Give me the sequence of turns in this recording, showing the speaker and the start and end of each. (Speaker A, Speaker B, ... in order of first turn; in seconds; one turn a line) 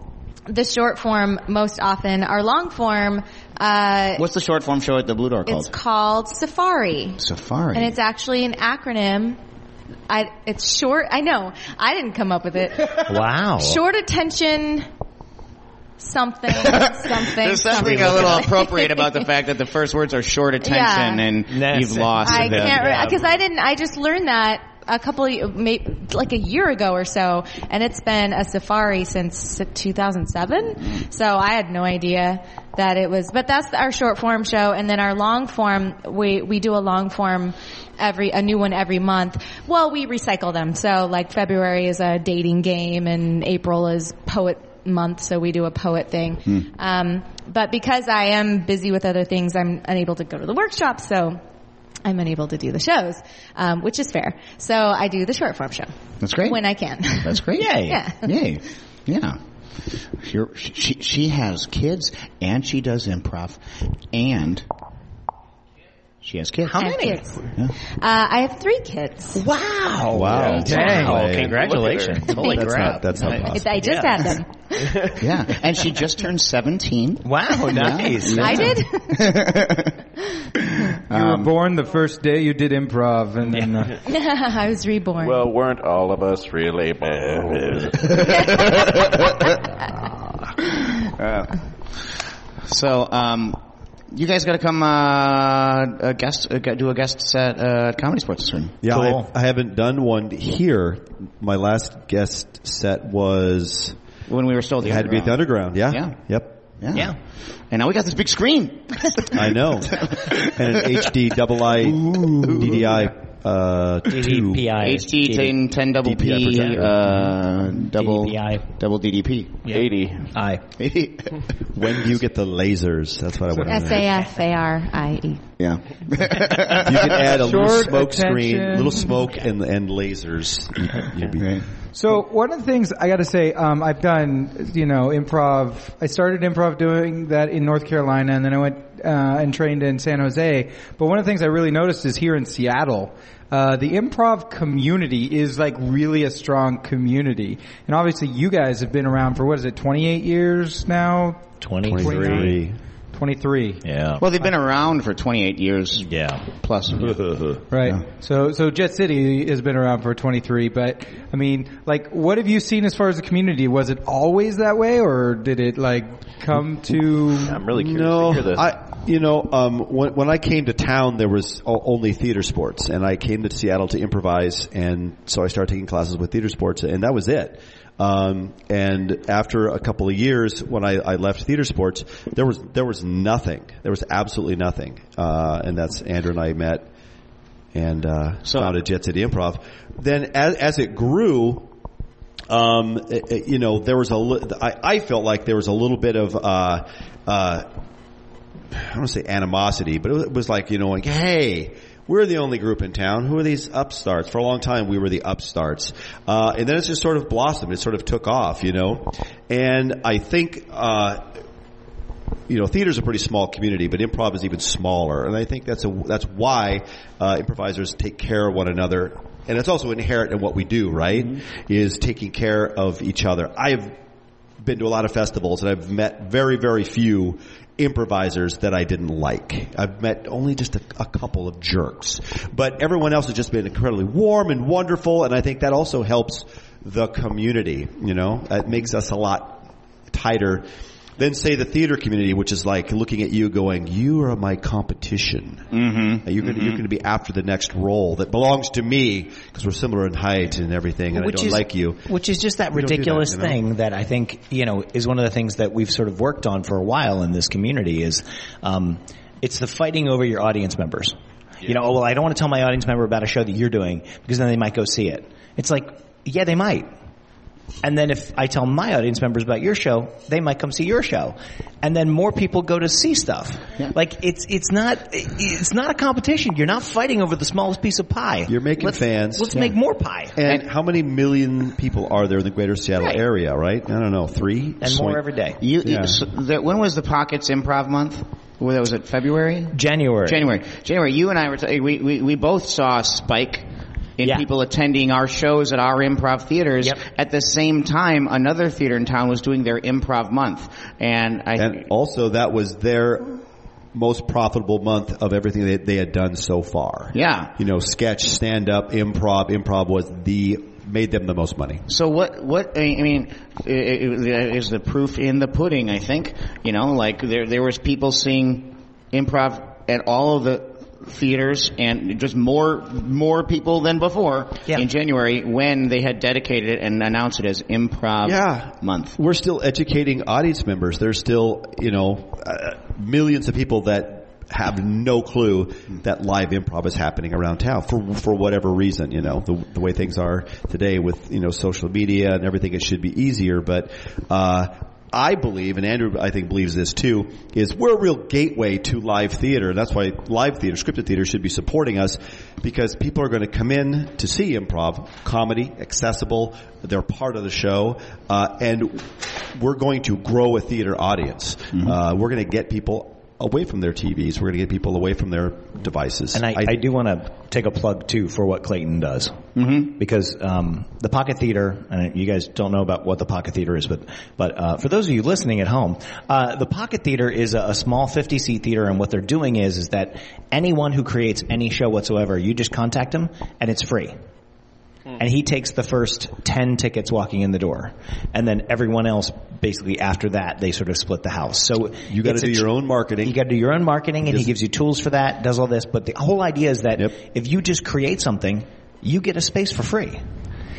Speaker A: 0.5-4.2
Speaker B: 4.2-5.7
Speaker A: 5.5-7.2
Speaker B: 7.2-8.0
Speaker A: 7.7-9.4
Speaker A: 10.1-14.9
Speaker C: 13.1-13.8
Speaker A: 16.0-19.3
Speaker B: 16.5-23.0
Speaker C: 17.8-18.5
Speaker A: 20.6-21.3
Speaker C: 21.5-23.2
Speaker A: 22.2-51.4
Speaker A: 52.0-58.3
Speaker B: 56.2-56.6
Speaker B: 57.2-59.4
Speaker C: 57.6-58.0
Speaker B: 60.1-64.7
Speaker B: 66.2-66.9
Speaker C: 66.7-67.2
Speaker A: 66.8-69.4
Speaker C: 69.3-74.4
Speaker D: 70.1-71.6
Speaker A: 70.3-71.2
Speaker E: 70.8-71.2
Speaker F: 71.3-72.2
Speaker A: 72.3-72.6
Speaker D: 72.3-73.7
Speaker A: 73.5-75.2
Speaker B: 75.2-80.0
Speaker C: 77.2-78.8
Speaker A: 78.2-79.5
Speaker B: 80.8-81.5
Speaker E: 81.1-84.0
Speaker A: 84.0-85.5
Speaker F: 85.2-89.1
Speaker B: 88.0-89.5
Speaker A: 88.2-88.9
Speaker B: 91.0-91.5
Speaker B: 92.6-93.6
Speaker B: 94.1-98.8
Speaker D: 98.8-104.0
Speaker C: 98.9-99.3
Speaker B: 104.3-106.2
Speaker D: 104.8-106.6
Speaker B: 106.8-107.2
Speaker B: 107.7-111.0
Speaker D: 109.3-114.7
Speaker B: 112.1-112.7
Speaker C: 114.1-115.6
Speaker B: 114.8-119.6
Speaker D: 116.0-117.3
Speaker C: 116.5-116.8
Speaker C: 117.9-118.7
Speaker C: 119.6-120.6
Speaker F: 119.7-120.3
Speaker B: 120.8-121.8
Speaker D: 121.7-124.2
Speaker A: 123.7-125.5
Speaker B: 125.6-127.3
Speaker D: 126.8-131.6
Speaker E: 127.3-129.1
Speaker B: 131.4-131.7
Speaker E: 131.9-152.6
Speaker C: 151.6-152.6
Speaker D: 151.9-152.8
Speaker E: 153.1-153.8
Speaker C: 153.8-154.2
Speaker B: 154.2-157.3
Speaker C: 156.0-157.6
Speaker E: 157.7-167.6
Speaker F: 167.4-168.7
Speaker D: 167.7-186.9
Speaker D: 187.7-191.7
Speaker B: 188.4-188.7
Speaker D: 192.5-197.7
Speaker D: 198.7-211.4
Speaker D: 212.5-224.0
Speaker D: 224.6-245.7
Speaker B: 245.7-246.8
Speaker D: 246.2-252.1
Speaker C: 251.1-266.9
Speaker D: 252.7-253.6
Speaker C: 267.8-280.4
Speaker D: 278.5-279.8
Speaker D: 280.4-285.3
Speaker C: 284.8-285.6
Speaker B: 285.6-293.7
Speaker D: 285.8-286.2
Speaker C: 289.7-290.5
Speaker B: 294.2-301.8
Speaker C: 294.2-294.5
Speaker D: 301.6-303.4
Speaker D: 303.9-311.9
Speaker B: 307.1-307.5
Speaker B: 311.9-329.2
Speaker D: 328.2-366.8
Speaker C: 366.3-384.2
Speaker B: 369.6-369.9
Speaker C: 385.2-392.7
Speaker D: 392.1-393.4
Speaker C: 393.2-400.2